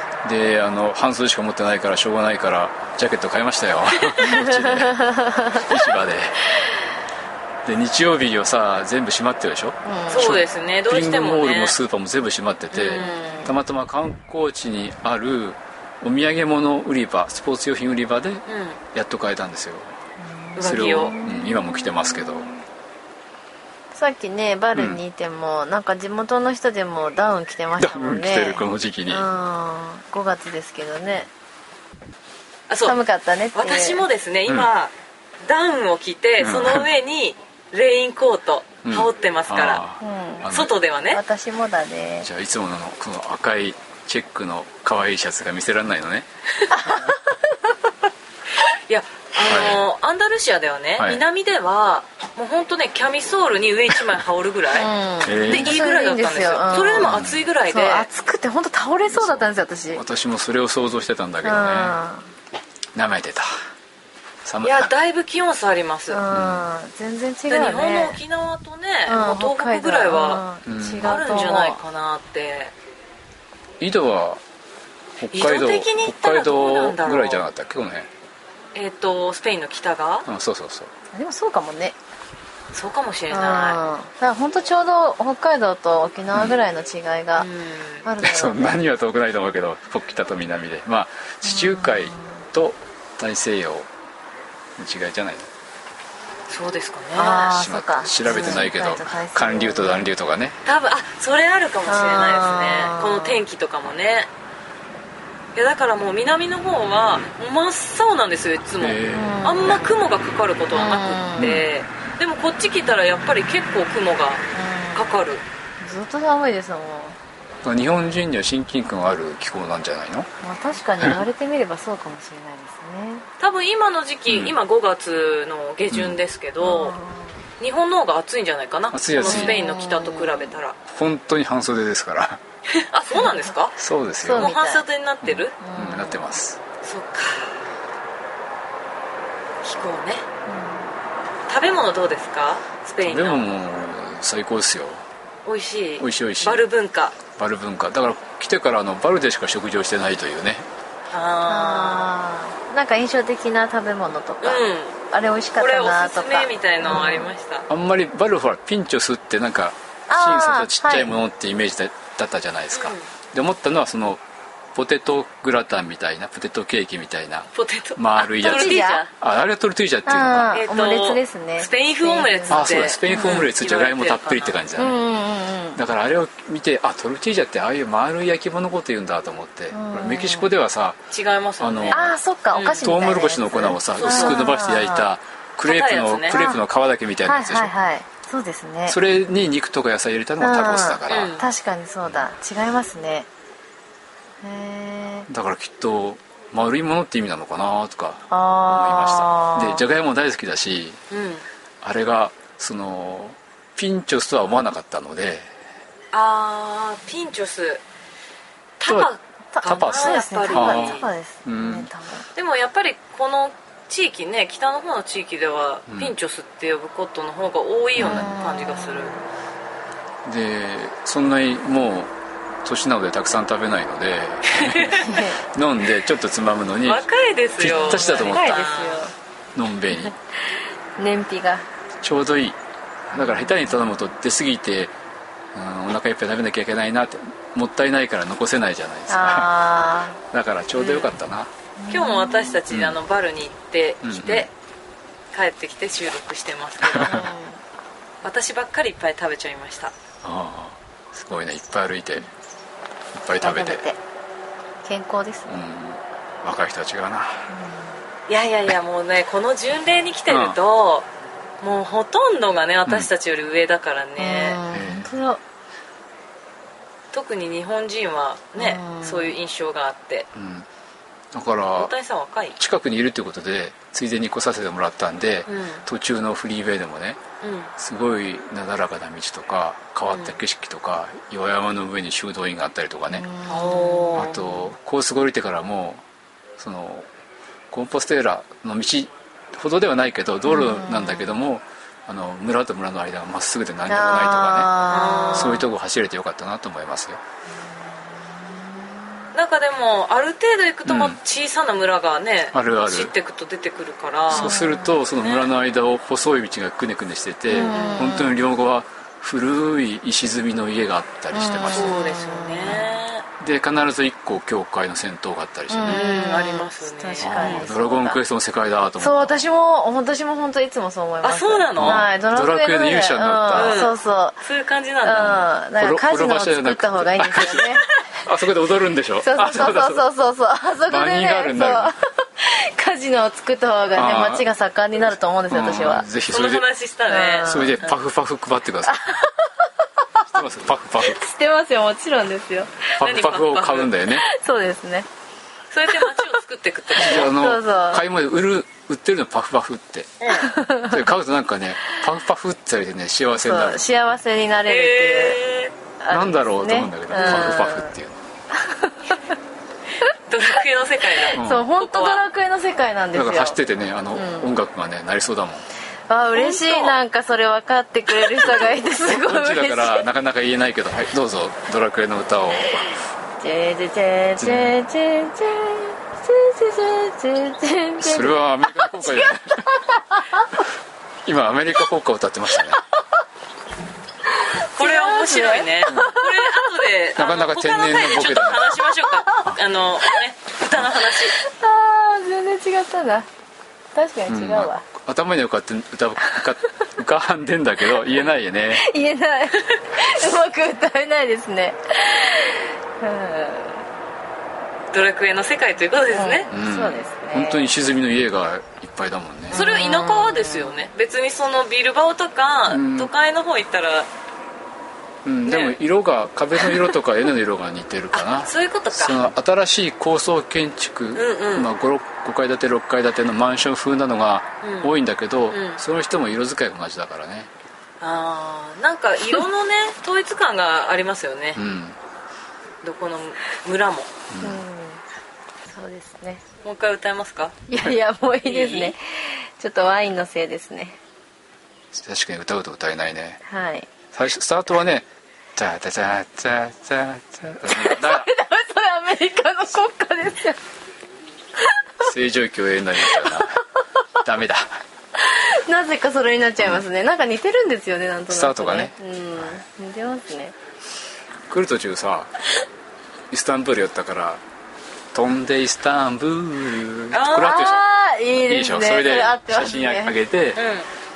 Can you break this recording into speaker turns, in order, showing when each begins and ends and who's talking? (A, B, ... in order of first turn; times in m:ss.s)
0:00.2-0:05.0 A
0:04.0-0:04.3 B
0:04.3-0:05.8 C
0:05.5-0:06.4 A
0:07.6-0:20.0 A
0:09.8-0:10.3 C
0:10.1-0:11.8 B
0:12.7-0:13.5 B
0:12.9-0:13.5 C
0:18.5-0:18.8 B
0:20.2-0:22.6 C
0:20.6-0:21.2 B
0:20.6-0:22.5 A
0:23.9-0:31.3 C
0:24.7-0:25.0 A
0:27.8-0:29.3 A
0:32.7-0:33.0 B
0:32.8-0:34.0 C
0:33.6-0:34.9 B
0:35.4-0:39.8 B
0:36.4-0:36.9 A
0:38.8-0:40.7 A
0:40.0-0:40.5 C
0:40.5-0:41.2 B
0:41.1-0:42.3 C
0:42.2-0:46.3 A
0:46.7-0:47.9 C
0:48.7-0:54.9 B
0:49.4-0:49.8 A
0:54.8-1:00.0 C
0:55.2-0:55.8 A
0:55.5-0:58.1 B
0:57.0-0:57.4 A
0:59.1-1:02.0 A
1:01.4-1:02.2 C
1:03.0-1:03.5 A
1:04.4-1:04.9 A
1:04.6-1:06.2 B
1:06.1-1:08.2 C
1:06.3-1:06.7 A
1:07.5-1:10.4 B
1:09.1-1:11.8 C
1:10.6-1:11.2 A
1:11.0-1:12.7 B
1:13.8-1:14.4 A
1:15.2-1:18.1 A
1:15.3-1:17.4 B
1:18.8-1:20.3 B
1:20.3-1:20.9 A
1:21.1-1:22.0 C
1:22.7-1:23.8 B
1:23.3-1:27.5 C
1:26.3-1:26.6 A
1:27.4-1:28.0 B
1:28.0-1:28.8 C
1:28.2-1:33.9 A
1:31.4-1:32.4 C
1:34.8-1:35.5 A
1:36.5-1:37.5 B
1:37.2-1:40.1 C
1:37.4-1:40.6 A
1:38.2-1:38.6 B
1:40.6-1:44.3 B
1:41.9-1:43.4 C
1:45.6-1:54.4 B
1:48.8-1:49.4 A
1:49.1-1:50.0 C
1:50.7-1:51.5 C
1:51.4-1:51.6 A
1:54.5-1:55.2 C
1:54.9-1:55.4 B
1:55.8-1:57.2 C
1:57.6-2:00.3 A
2:00.4-2:03.3 C
2:03.4-2:07.0 B
2:04.3-2:04.6 A
2:05.9-2:06.2 A
2:06.6-2:07.4 C
2:07.6-2:10.8 B
2:08.9-2:09.6 A
2:09.2-2:10.5 C
2:10.9-2:12.4 A
2:12.7-2:13.8 B
2:13.1-2:13.4 C
2:13.8-2:14.5 A
2:14.2-2:14.8 C
2:14.3-2:15.6 B
2:15.2-2:16.6 A
2:15.6-2:16.2 C
2:16.8-2:17.6 B
2:19.6-2:20.3 B
2:20.5-2:20.9 C
2:21.5-2:23.5 B
2:23.0-2:25.0 A
2:25.4-2:27.2 B
2:26.0-2:26.6 A
2:27.4-2:30.7 A
2:31.1-2:32.1 B
2:31.5-2:37.2 C
2:34.4-2:35.0 B
2:35.6-2:37.7 B
2:37.7-2:44.2 A
2:40.1-2:41.1 C
2:42.7-2:43.1 B
2:44.8-2:50.6 A
2:47.5-2:49.1 B
2:48.4-2:49.0 C
2:50.1-2:53.4 C
2:50.5-2:54.6 B
2:52.5-2:55.0 A
2:54.8-2:55.8 C
2:55.8-3:01.0 A
2:59.7-3:00.5 C
3:01.1-3:02.9 B
3:01.6-3:02.2 A
3:01.9-3:05.1 C
3:02.8-3:07.7 A
3:04.0-3:04.5 B
3:05.6-3:06.4 B
3:06.3-3:06.6 C
3:07.2-3:09.0 C
3:08.9-3:11.4 A
3:10.4-3:13.3 C
3:11.1-3:11.5 B
3:14.4-3:15.3 C
3:15.3-3:21.0 A
3:18.3-3:19.8 C
3:21.1-3:21.4 B
3:21.8-3:25.5 A
3:26.1-3:27.8 B
3:28.8-3:31.1 B
3:29.5-3:32.3 C
3:29.6-3:31.9 A
3:32.4-3:39.2 B
3:35.9-3:36.2 A
3:38.0-3:38.3 A
3:38.0-3:39.2 C
3:40.2-3:42.1 A
3:42.6-3:47.0 A
3:44.5-3:45.2 B
3:45.1-3:45.4 C
3:46.8-3:49.1 B
3:47.6-3:48.6 A
3:47.7-3:49.1 C
3:49.6-3:50.2 A
3:50.0-3:51.6 C
3:52.0-3:54.9 A
3:55.5-3:59.7 A
3:59.1-4:00.2 C
4:00.3-4:01.5 A
4:00.8-4:01.2 B
4:01.8-4:02.6 C
4:01.9-4:04.5 B
4:02.7-4:03.0 A
4:04.0-4:04.5 A
4:05.3-4:07.3 B
4:06.9-4:07.3 A
4:07.0-4:07.6 C
4:08.2-4:09.9 B
4:10.2-4:12.3 A
4:13.1-4:13.9 A
4:13.4-4:14.0 C
4:14.8-4:15.6 C
4:15.5-4:17.5 A
4:17.5-4:17.9 C
4:18.3-4:21.1 B
4:20.3-4:20.6 A
4:21.6-4:24.6 B
4:24.2-4:25.4 C
4:24.7-4:25.1 A
4:27.1-4:30.3 B
4:28.6-4:29.3 C
4:30.3-4:30.7 A
4:31.3-4:31.9 A
4:31.8-4:32.6 B
4:32.6-4:37.2 A
4:35.5-4:35.8 B
4:37.4-4:37.7 B
4:37.8-4:43.3 A
4:40.1-4:40.4 B
4:43.1-4:44.5 C
4:43.5-4:44.4 B
4:44.2-4:46.0 A
4:46.6-4:47.1 A
4:47.7-4:54.8 A
4:50.5-4:51.4 C
4:53.9-4:55.6 C
4:54.9-4:55.6 B
4:55.3-4:57.2 A
4:59.3-5:04.6 B
5:00.9-5:01.2 A
5:02.5-5:03.1 A
5:04.3-5:12.0 A
5:04.3-5:05.0 C
5:05.1-5:05.5 B
5:07.5-5:08.4 C
5:07.5-5:08.4 B
5:11.3-5:12.8 C
5:11.7-5:13.3 B
5:13.4-5:16.1 A
5:15.7-5:18.2 C
5:15.9-5:17.7 B
5:17.2-5:19.4 A
5:19.0-5:24.4 C
5:21.2-5:22.1 B
5:21.8-5:23.9 A
5:23.5-5:25.5 B
5:25.0-5:27.9 C
5:25.1-5:30.0 A
5:29.2-5:36.1 C
5:30.9-5:32.0 A
5:34.0-5:34.4 A
5:35.5-5:36.7 A
5:36.3-5:38.0 B
5:37.1-5:37.8 C
5:37.5-5:39.0 A
5:38.9-5:40.4 C
5:40.3-5:41.2 A
5:41.0-5:42.9 C
5:43.0-5:43.9 B
5:43.0-5:44.3 A
5:44.1-5:45.1 C
5:45.7-5:47.3 B
5:45.9-5:46.3 C
5:47.0-5:50.3 A
5:47.0-5:48.0 C
5:50.3-5:51.0 C
5:50.8-5:53.9 A
5:53.4-5:55.4 C
5:54.7-5:55.7 B
5:56.0-5:57.9 C
5:56.1-5:58.2 A
5:58.5-5:59.2 C
6:00.2-6:02.2 B
6:01.3-6:03.6 C
6:01.4-6:01.7 A
6:03.1-6:05.7 A
6:04.1-6:04.5 C
6:06.1-6:10.0 C
6:06.3-6:07.0 B
6:08.4-6:12.9 A
6:13.4-6:20.5 C
6:14.4-6:14.8 A
6:18.0-6:19.7 A
6:21.2-6:22.8 A
6:24.3-6:26.6 C
6:24.8-6:31.4 B
6:25.9-6:26.2 A
6:27.2-6:28.7 A
6:31.4-6:33.3 C
6:34.0-6:34.8 C
6:34.3-6:38.9 A
6:36.3-6:36.5 C
6:38.7-6:43.8 C
6:44.9-6:46.5 B
6:46.1-6:47.7 C
6:46.5-6:49.6 A
6:49.5-6:50.8 C
6:49.5-6:54.1 B
6:52.7-6:53.1 A
6:55.2-7:07.5 A
6:55.5-6:55.8 B
6:56.6-6:56.9 B
6:58.1-6:59.2 B
7:01.1-7:01.7 B
7:04.6-7:04.9 B
7:05.5-7:05.8 B
7:08.0-7:11.6 B
7:11.6-7:12.0 A
7:12.8-7:14.1 B
7:14.3-7:14.6 A
7:14.4-7:15.0 C
7:15.7-7:16.4 C
7:16.6-7:17.6 B
7:17.7-7:21.0 C
7:18.4-7:18.9 B
7:21.9-7:23.4 A
7:23.5-7:23.9 C
7:24.1-7:28.3 A
7:27.7-7:30.6 C
7:32.0-7:33.6 A
7:33.1-7:33.6 C
7:34.2-7:34.8 A
7:35.2-7:40.6 C
7:36.6-7:36.8 A
7:38.3-7:38.9 A
7:41.5-7:42.3 A
7:43.3-7:44.4 A
7:45.1-7:47.8 A
7:47.1-7:47.7 B
7:47.4-7:50.2 C
7:48.4-7:50.6 A
7:50.6-7:50.9 B